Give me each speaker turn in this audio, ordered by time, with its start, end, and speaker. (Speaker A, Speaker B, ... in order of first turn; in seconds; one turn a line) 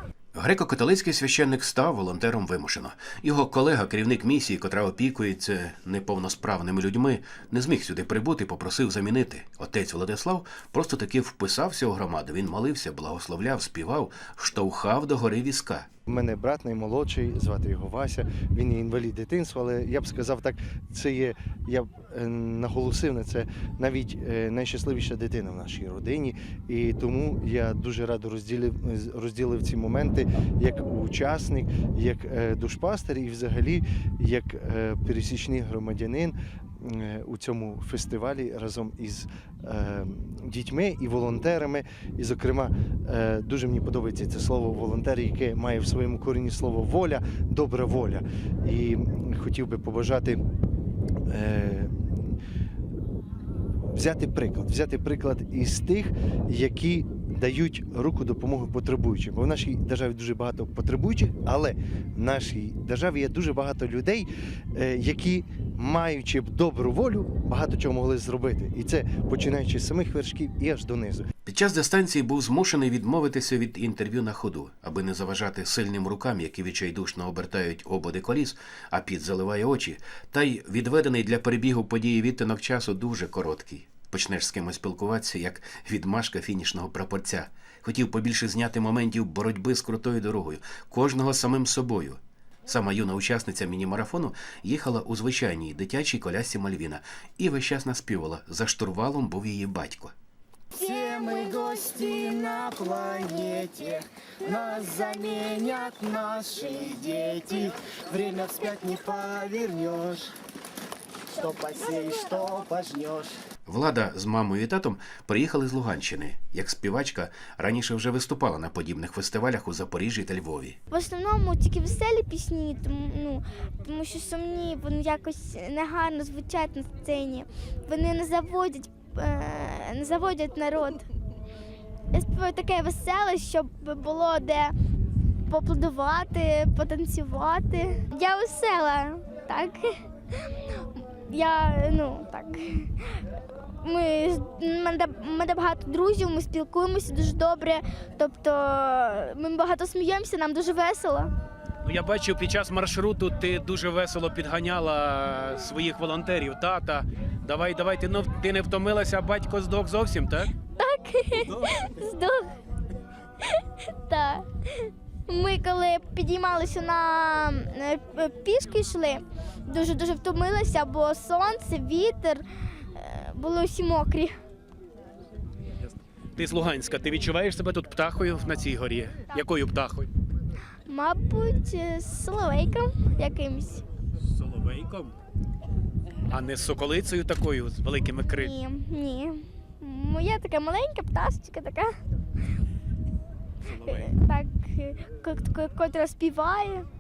Speaker A: 0.3-15.9
Speaker B: 16.1-50.4
Speaker B: 51.3-52.3
Speaker B: 53.9-71.3
Speaker A: 71.5-100.1
Speaker C: 100.8-110.3
Speaker C: 111.4-113.3
Speaker A: 113.7-120.8
Speaker D: 120.9-131.0
Speaker D: 132.1-134.7
Speaker D: 135.5-140.0
Speaker D: 141.3-142.9
Speaker D: 143.8-151.3
Speaker E: 151.8-160.5
Speaker D: 160.8-162.5
Speaker D: 164.1-164.5
Speaker D: 165.3-172.4
Speaker D: 173.0-174.4
Speaker E: 176.4-180.1
Speaker D: 180.9-183.8
Speaker E: 184.2-185.1
Speaker E: 186.3-188.5
Speaker D: 188.4-191.9
Speaker E: 193.7-194.1
Speaker D: 193.8-196.8